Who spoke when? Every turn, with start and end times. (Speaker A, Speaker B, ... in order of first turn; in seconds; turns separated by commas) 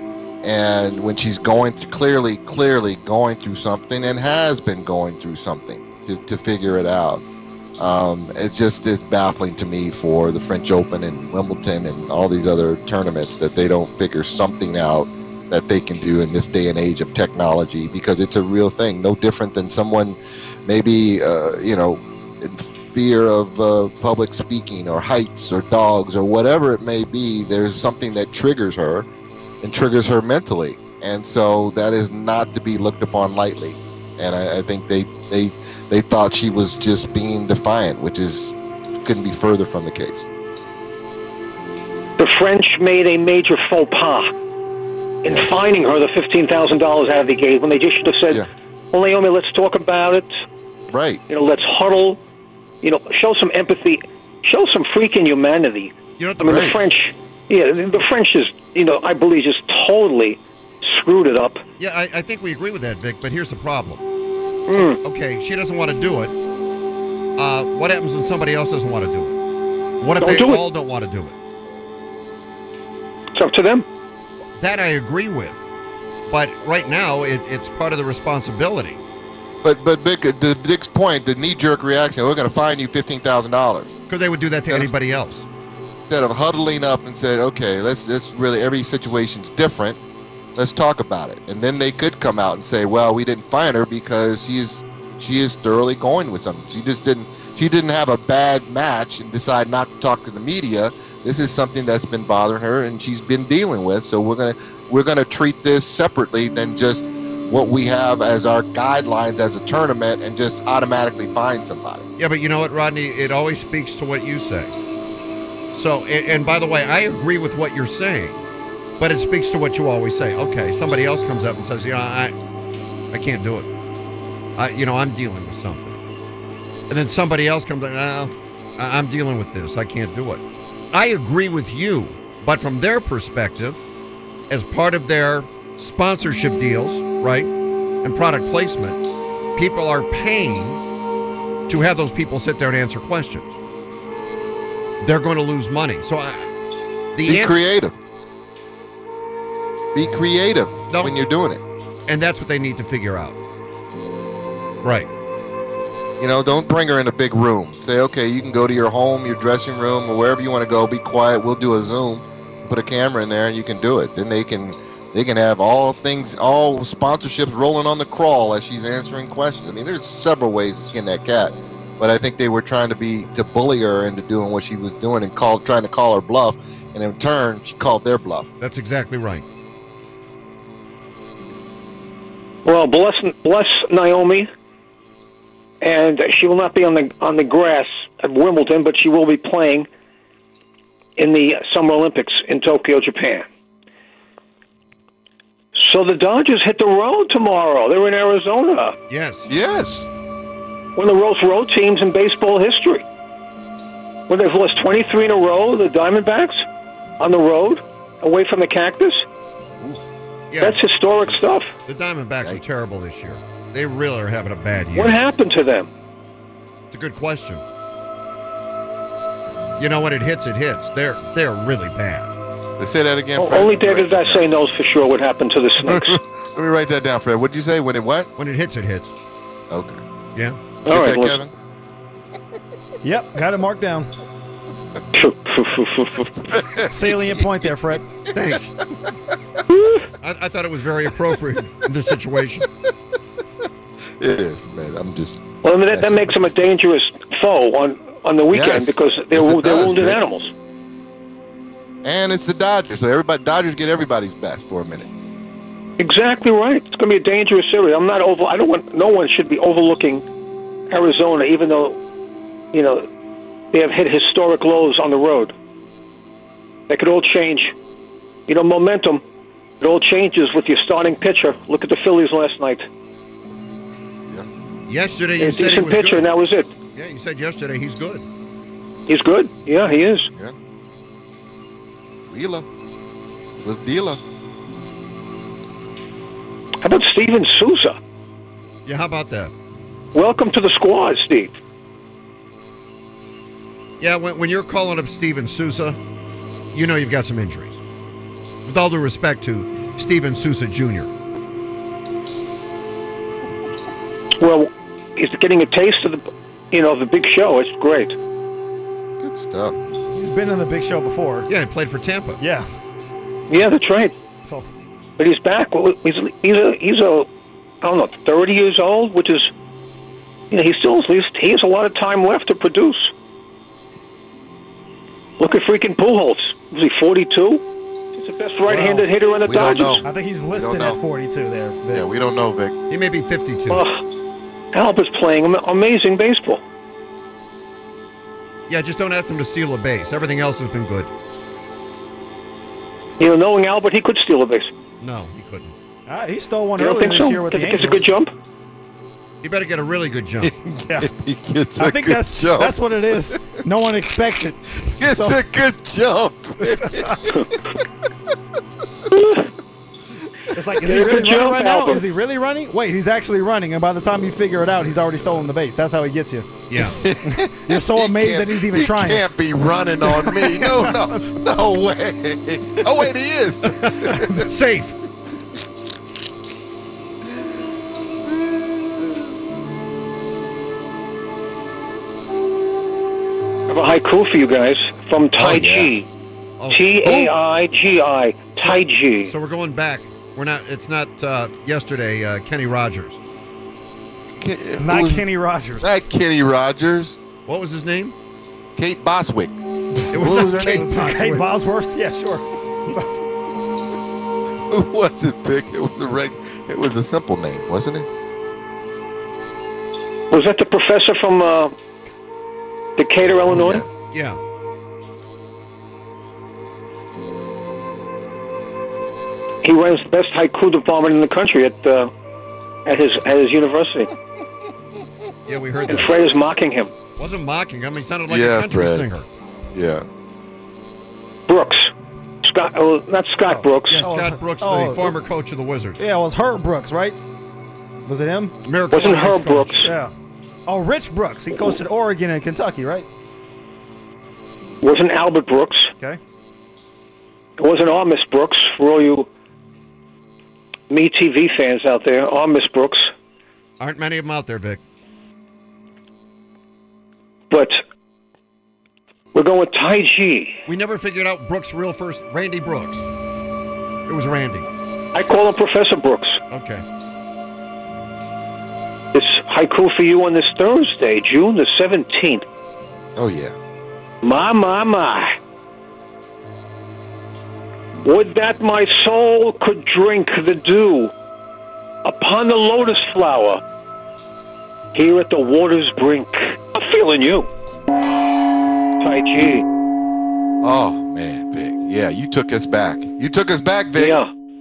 Speaker A: 0.4-7.2, Speaker A: 7.8-29.1, Speaker A: 29.6-40.3, Speaker B: 42.2-44.3, Speaker B: 45.2-50.3, Speaker A: 45.2-45.6, Speaker A: 50.9-51.2, Speaker B: 51.3-52.2, Speaker B: 52.8-61.6, Speaker C: 56.2-56.8, Speaker A: 56.4-56.8, Speaker C: 61.8-64.0, Speaker B: 64.7-65.0, Speaker C: 65.0-66.3, Speaker C: 67.4-69.4, Speaker C: 70.0-71.3, Speaker B: 70.2-70.6, Speaker B: 73.3-73.8, Speaker C: 74.6-75.6, Speaker C: 76.3-79.0, Speaker A: 79.6-83.9, Speaker C: 84.1-85.5, Speaker A: 86.1-90.0, Speaker A: 90.5-112.0, Speaker C: 112.2-114.7, Speaker C: 115.7-118.4, Speaker C: 119.0-122.3, Speaker C: 123.1-123.7, Speaker C: 124.6-126.0, Speaker C: 126.9-133.8, Speaker C: 134.5-137.5, Speaker C: 138.0-139.0, Speaker C: 139.6-140.8, Speaker C: 141.7-143.6, Speaker C: 145.0-146.5, Speaker C: 147.1-147.6, Speaker A: 147.2-148.0, Speaker A: 149.9-151.6, Speaker C: 150.9-151.1, Speaker C: 152.1-153.3, Speaker A: 156.2-178.5, Speaker C: 178.6-179.4, Speaker B: 182.6-184.5, Speaker B: 185.8-189.9, Speaker B: 191.2-193.4, Speaker B: 195.7-198.9, Speaker C: 199.1-199.5, Speaker A: 199.5-200.1, Speaker B: 200.9-203.0, Speaker B: 204.3-206.6, Speaker B: 207.2-209.2, Speaker C: 210.5-210.8, Speaker B: 210.6-211.7, Speaker C: 211.9-215.2, Speaker A: 212.4-212.8, Speaker B: 214.9-215.9, Speaker C: 216.9-217.6, Speaker C: 219.8-222.3, Speaker A: 222.8-224.4, Speaker B: 223.4-226.2, Speaker A: 225.8-228.3, Speaker C: 228.4-229.1, Speaker A: 229.7-230.0, Speaker A: 230.8-231.5, Speaker B: 230.9-231.4, Speaker D: 233.0-234.1, Speaker B: 235.1-236.4, Speaker A: 236.5-237.9, Speaker D: 236.9-238.0, Speaker C: 238.3-238.7, Speaker B: 239.7-240.0, Speaker C: 240.2-242.7, Speaker A: 244.2-246.3, Speaker B: 245.6-250.5, Speaker A: 248.5-250.2, Speaker A: 252.0-255.1, Speaker B: 256.0-260.2, Speaker B: 260.9-262.0, Speaker B: 262.7-263.1, Speaker B: 263.7-265.5, Speaker B: 266.9-267.7, Speaker B: 268.5-269.2, Speaker B: 269.8-272.9, Speaker C: 274.9-276.3, Speaker B: 275.4-276.7, Speaker C: 276.9-278.2, Speaker B: 279.1-280.3, Speaker A: 282.3-282.7, Speaker A: 283.6-284.2, Speaker B: 286.8-288.0, Speaker C: 288.9-289.5, Speaker B: 290.1-291.5, Speaker C: 294.0-296.0, Speaker C: 296.7-297.8, Speaker C: 298.6-301.1, Speaker B: 304.4-308.1, Speaker A: 309.2-309.7, Speaker D: 310.1-311.5, Speaker C: 311.5-312.4, Speaker D: 312.4-312.6, Speaker B: 313.5-314.1, Speaker B: 315.2-317.3, Speaker B: 317.8-319.5, Speaker B: 320.5-323.1, Speaker B: 325.4-327.6, Speaker B: 328.1-330.0, Speaker D: 328.7-329.1, Speaker A: 329.4-331.0, Speaker D: 330.0-332.0, Speaker A: 331.9-332.7, Speaker C: 332.9-333.8, Speaker B: 333.7-334.0, Speaker B: 334.7-336.6, Speaker C: 338.7-341.1, Speaker B: 343.2-344.7, Speaker C: 345.0-345.8, Speaker D: 346.1-348.1, Speaker B: 346.8-348.3, Speaker C: 349.4-350.5, Speaker A: 350.4-353.3, Speaker D: 351.8-355.4, Speaker A: 355.0-357.8, Speaker D: 356.7-357.2, Speaker B: 359.1-359.4, Speaker D: 360.5-366.5, Speaker B: 360.8-362.0, Speaker C: 366.7-367.0, Speaker A: 366.9-374.3, Speaker D: 367.6-369.2, Speaker D: 370.1-371.2, Speaker C: 373.7-375.0, Speaker A: 378.2-379.3, Speaker B: 383.7-386.1, Speaker A: 385.3-385.9, Speaker C: 386.6-387.3, Speaker B: 386.7-389.3, Speaker C: 388.6-393.2, Speaker A: 394.4-395.2, Speaker D: 394.8-395.9, Speaker A: 395.8-397.2, Speaker C: 397.4-398.1, Speaker A: 398.8-399.6, Speaker D: 400.0-403.1, Speaker C: 400.1-401.5, Speaker A: 400.1-400.8, Speaker A: 404.7-408.1, Speaker B: 410.3-411.7, Speaker B: 413.0-413.8, Speaker A: 413.5-413.8, Speaker C: 414.1-414.4, Speaker B: 419.6-422.1, Speaker B: 422.8-424.1, Speaker C: 425.5-426.3, Speaker B: 425.9-426.9, Speaker C: 427.2-429.2, Speaker A: 428.3-429.1, Speaker A: 429.7-430.0, Speaker B: 431.5-431.9, Speaker B: 432.4-434.0, Speaker C: 433.9-436.0, Speaker D: 434.0-435.1, Speaker D: 436.0-437.2, Speaker D: 438.1-438.6, Speaker C: 438.6-439.9, Speaker B: 438.9-439.9, Speaker D: 439.8-440.1, Speaker D: 440.7-443.1, Speaker B: 444.8-445.9, Speaker B: 447.6-449.3, Speaker B: 450.9-453.1, Speaker C: 453.8-454.8, Speaker B: 457.5-457.8, Speaker B: 459.3-460.6, Speaker C: 460.7-463.1, Speaker C: 464.1-464.7, Speaker B: 465.1-466.4, Speaker C: 466.5-466.8, Speaker B: 469.1-472.4, Speaker A: 473.1-473.5, Speaker B: 474.2-475.3, Speaker B: 478.0-481.1, Speaker B: 482.0-483.6, Speaker B: 484.9-487.5, Speaker B: 489.0-489.6, Speaker A: 490.6-494.2, Speaker B: 494.0-494.3